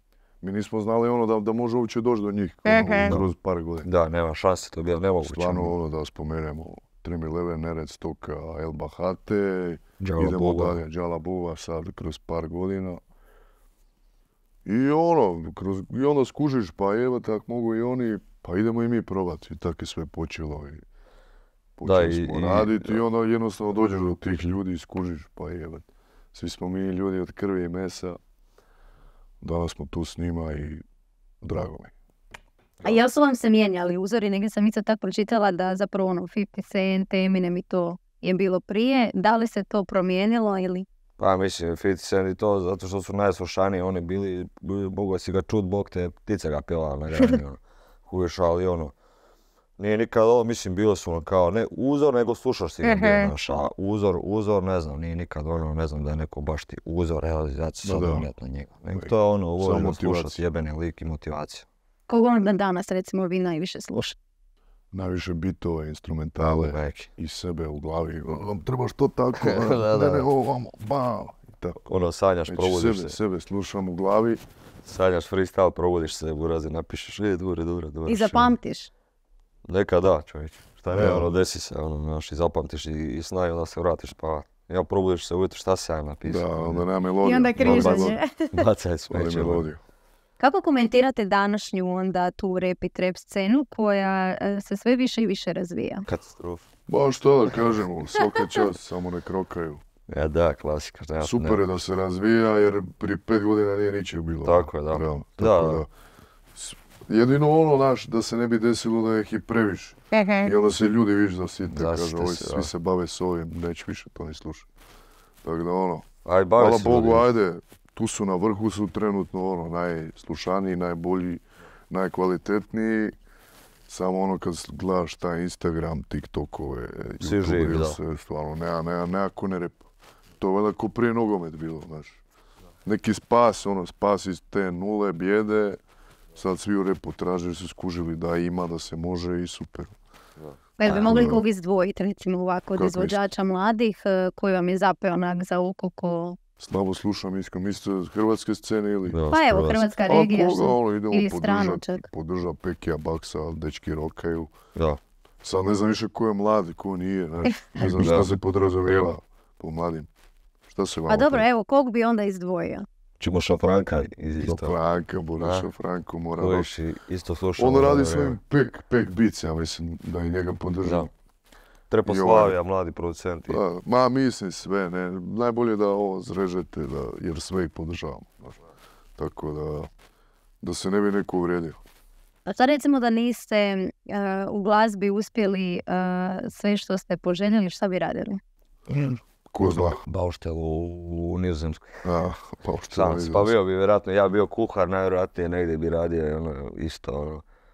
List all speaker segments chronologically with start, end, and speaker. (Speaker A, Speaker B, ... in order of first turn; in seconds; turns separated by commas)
Speaker A: 0.4-3.9, Speaker B: 2.7-3.0, Speaker C: 2.8-3.3, Speaker C: 3.8-5.7, Speaker A: 5.2-13.0, Speaker C: 10.0-10.8, Speaker A: 14.6-20.8, Speaker A: 21.8-28.2, Speaker C: 21.8-23.0, Speaker A: 29.4-30.8, Speaker A: 31.4-31.9, Speaker B: 32.8-40.9, Speaker C: 41.2-48.9, Speaker C: 49.8-61.6, Speaker B: 52.8-53.3, Speaker A: 57.8-58.3, Speaker A: 58.9-60.4, Speaker B: 62.1-64.2, Speaker A: 64.9-71.8, Speaker C: 66.4-67.1, Speaker C: 69.4-70.3, Speaker C: 71.8-73.1, Speaker A: 72.5-74.4, Speaker C: 74.8-78.5, Speaker B: 78.1-78.9, Speaker C: 79.6-86.8, Speaker A: 80.9-81.3, Speaker A: 86.2-88.2, Speaker B: 87.2-88.5, Speaker C: 87.6-89.7, Speaker A: 89.1-89.8, Speaker B: 90.4-96.1, Speaker C: 96.1-96.6, Speaker A: 96.9-99.8, Speaker C: 100.1-101.6, Speaker A: 101.2-105.9, Speaker C: 104.4-105.8, Speaker A: 106.5-114.7, Speaker B: 110.1-110.5, Speaker C: 111.7-112.7, Speaker A: 115.4-123.1, Speaker C: 116.2-117.3, Speaker A: 123.9-129.8, Speaker C: 127.2-128.0, Speaker A: 130.4-132.2, Speaker A: 132.8-135.8, Speaker A: 136.3-139.9, Speaker C: 140.5-141.3, Speaker B: 140.8-146.4, Speaker A: 140.9-141.4, Speaker A: 142.7-143.2, Speaker A: 146.6-149.2, Speaker C: 149.1-149.9, Speaker B: 149.3-152.0, Speaker A: 150.0-154.5, Speaker C: 154.7-155.0, Speaker A: 155.4-160.1, Speaker B: 157.4-157.8, Speaker C: 157.8-158.3, Speaker A: 160.7-161.4, Speaker B: 161.1-162.8, Speaker C: 163.2-164.7, Speaker A: 164.4-166.7, Speaker C: 165.4-165.7, Speaker C: 166.4-168.4, Speaker A: 167.6-171.1, Speaker C: 170.8-171.1, Speaker C: 171.9-173.6, Speaker A: 172.0-172.6, Speaker A: 173.5-178.6, Speaker A: 179.2-179.9, Speaker A: 180.6-181.8, Speaker B: 182.4-188.4, Speaker A: 188.9-190.0, Speaker C: 189.6-192.0, Speaker A: 192.0-193.5, Speaker C: 192.9-197.4